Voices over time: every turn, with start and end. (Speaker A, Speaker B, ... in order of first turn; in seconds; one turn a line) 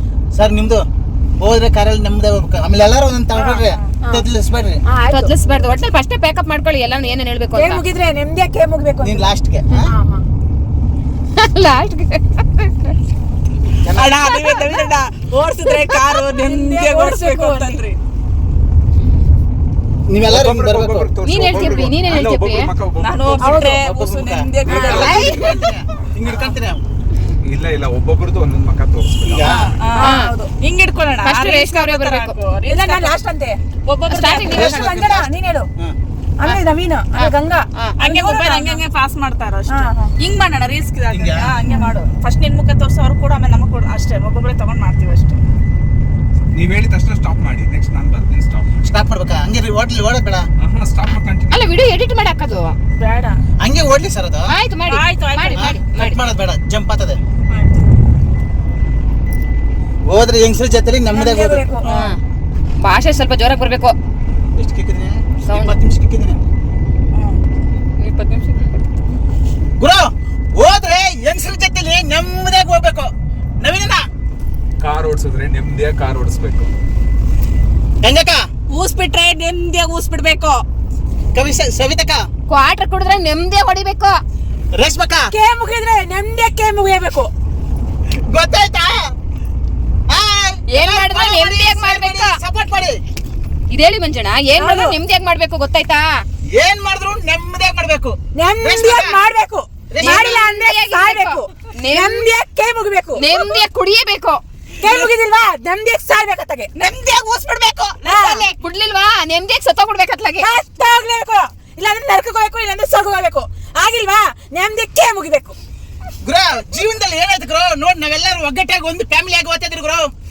Speaker A: 0.3-0.8
Speaker A: 1.4-4.8
Speaker B: 4.9-5.5
Speaker C: 5.1-7.8
Speaker B: 7.5-9.3
Speaker A: 9.0-9.9
Speaker B: 9.9-10.2
Speaker C: 11.4-12.9
Speaker A: 13.8-14.1
Speaker D: 13.9-18.0
Speaker C: 14.3-14.7
Speaker B: 16.4-17.8
Speaker A: 20.1-21.1
Speaker E: 20.2-23.6
Speaker C: 21.2-22.7
Speaker D: 23.0-25.5
Speaker B: 23.4-23.8
Speaker A: 23.6-26.8
Speaker E: 24.6-25.1
Speaker C: 24.8-25.6
Speaker D: 26.3-26.5
Speaker E: 27.4-29.5
Speaker A: 29.3-29.7
Speaker D: 29.5-33.1
Speaker B: 30.0-30.5
Speaker C: 30.0-30.3
Speaker C: 31.2-32.4
Speaker B: 32.7-33.6
Speaker D: 33.9-34.8
Speaker C: 34.1-35.1
Speaker A: 34.5-36.0
Speaker B: 34.6-35.7
Speaker B: 36.4-38.8
Speaker C: 37.2-37.9
Speaker D: 38.0-45.5
Speaker B: 39.7-40.1
Speaker A: 41.1-41.5
Speaker E: 46.5-48.8
Speaker A: 48.8-50.5
Speaker E: 50.6-51.7
Speaker C: 51.5-52.8
Speaker D: 53.0-53.4
Speaker A: 53.6-54.5
Speaker C: 54.5-56.2
Speaker D: 54.9-56.0
Speaker A: 55.5-57.2
Speaker A: 60.1-61.7
Speaker B: 61.1-61.9
Speaker D: 61.8-62.1
Speaker C: 61.9-62.2
Speaker C: 62.8-63.9
Speaker A: 64.5-66.4
Speaker C: 65.5-65.8
Speaker D: 67.1-67.4
Speaker C: 68.0-68.7
Speaker A: 69.8-74.0
Speaker E: 74.8-76.7
Speaker A: 78.0-78.4
Speaker D: 78.7-80.6
Speaker A: 81.3-82.2
Speaker C: 82.5-84.2
Speaker A: 84.8-85.3
Speaker B: 85.3-87.3
Speaker A: 88.2-89.0
Speaker A: 90.1-93.0
Speaker C: 90.7-92.3
Speaker C: 93.7-96.2
Speaker B: 94.6-95.0
Speaker A: 96.5-99.2
Speaker B: 98.4-103.6
Speaker A: 99.9-100.3
Speaker C: 100.0-102.3
Speaker C: 103.2-104.4
Speaker B: 104.8-106.7
Speaker D: 104.8-105.1
Speaker D: 106.8-108.1
Speaker B: 108.0-108.5
Speaker C: 108.1-110.5
Speaker B: 110.4-115.6
Speaker A: 116.2-120.1